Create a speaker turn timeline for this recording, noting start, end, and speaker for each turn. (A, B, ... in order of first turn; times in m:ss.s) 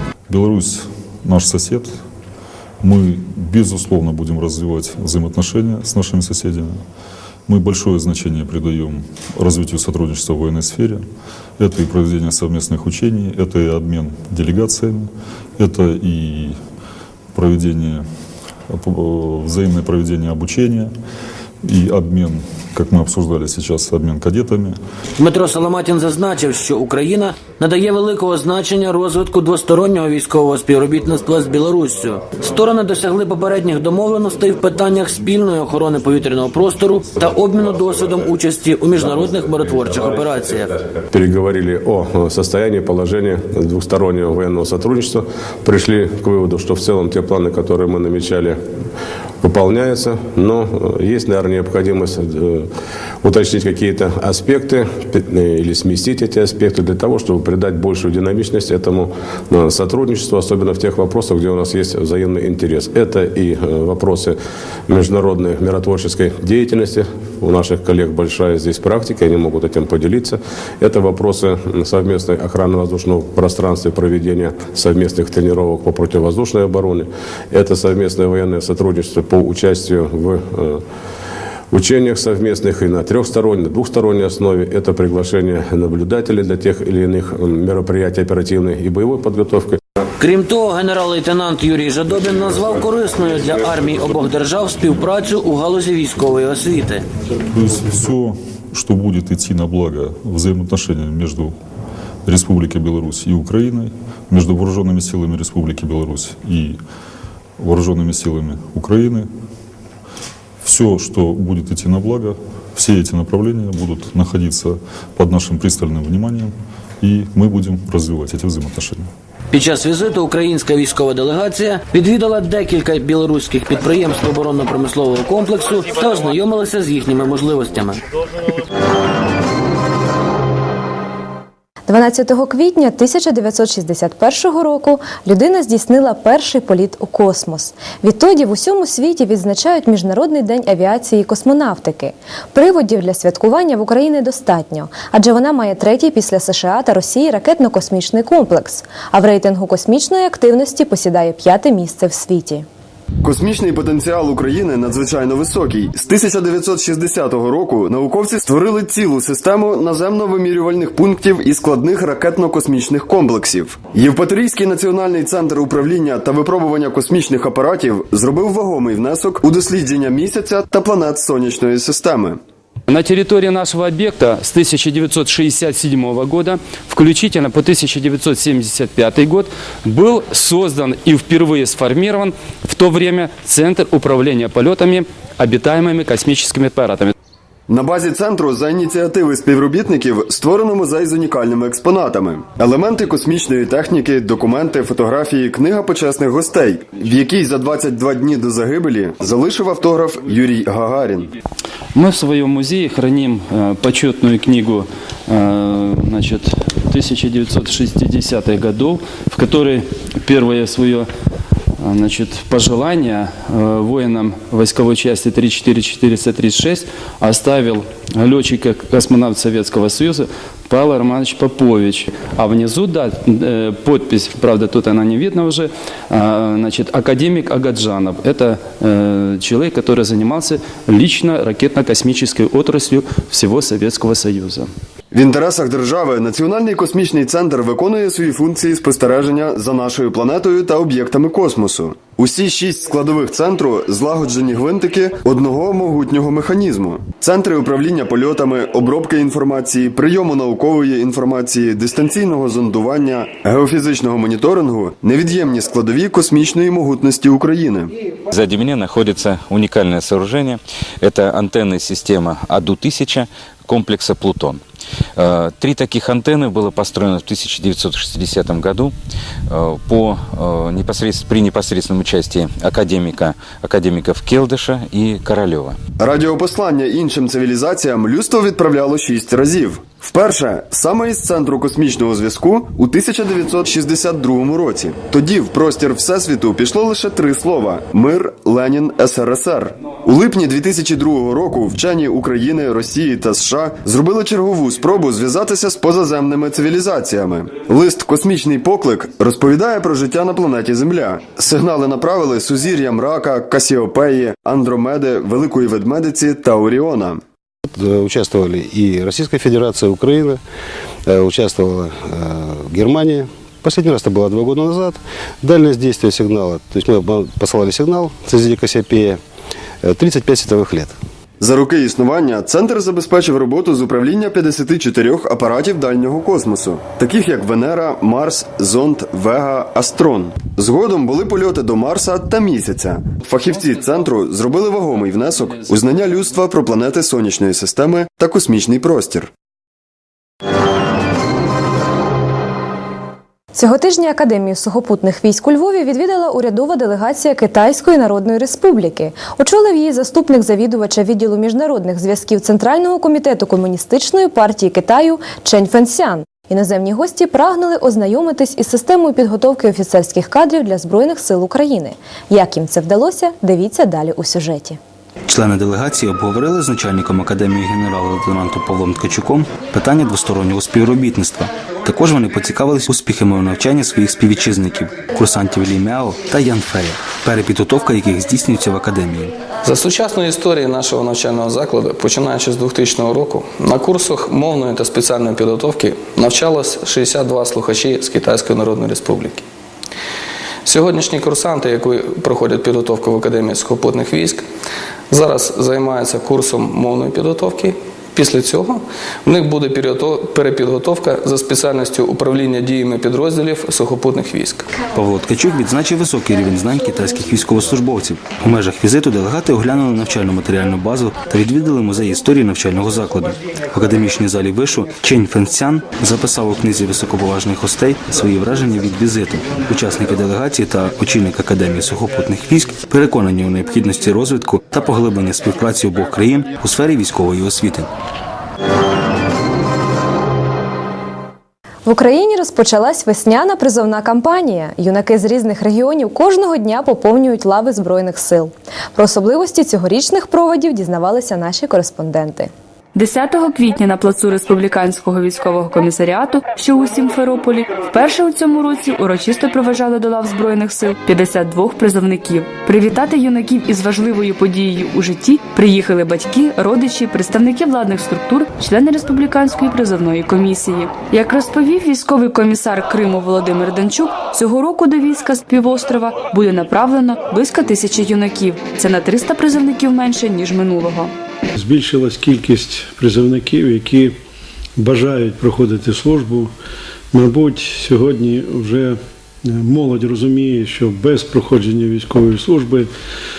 0:00.3-0:02.0 A
0:02.8-0:06.8 A
0:07.5-0:11.0 A
0:11.6-0:16.6 A
0:17.3-0:18.0 A
0:18.7-0:20.9 A
0:21.6-0:24.8 A
0:25.2-0:40.8 B
0:41.1-0:48.6 C
0:49.4-0:52.7 C
0:53.2-1:20.8 C
1:21.7-1:29.8 C
1:30.2-1:37.0 B
1:37.5-1:41.5 A
1:42.2-1:46.8 A
1:47.6-1:49.3 A
1:50.6-1:59.1 A
1:59.5-2:08.0 B
2:11.9-2:32.6 D
2:33.2-2:52.4 E
2:52.9-3:07.1 F
3:07.7-3:21.3 E
3:21.9-3:31.1 F
3:31.8-3:54.7 F
3:55.1-4:17.9 E
4:18.3-4:24.6 G
4:25.2-4:28.9 G
4:29.5-4:35.8 G
4:36.0-5:07.2 E
5:07.6-5:10.4 H
5:11.0-5:19.2 H
5:19.8-5:21.0 H
5:21.4-5:39.3 E
5:43.5-6:04.8 D
6:05.3-6:19.4 I
6:19.6-6:29.4 J
6:30.6-6:34.5 J
6:35.1-6:44.7 J
6:44.8-7:07.9 I
7:11.8-7:22.5 D
7:22.9-7:51.1 K
7:51.5-7:54.2 L
7:54.8-7:56.5 L
7:57.1-8:02.9 L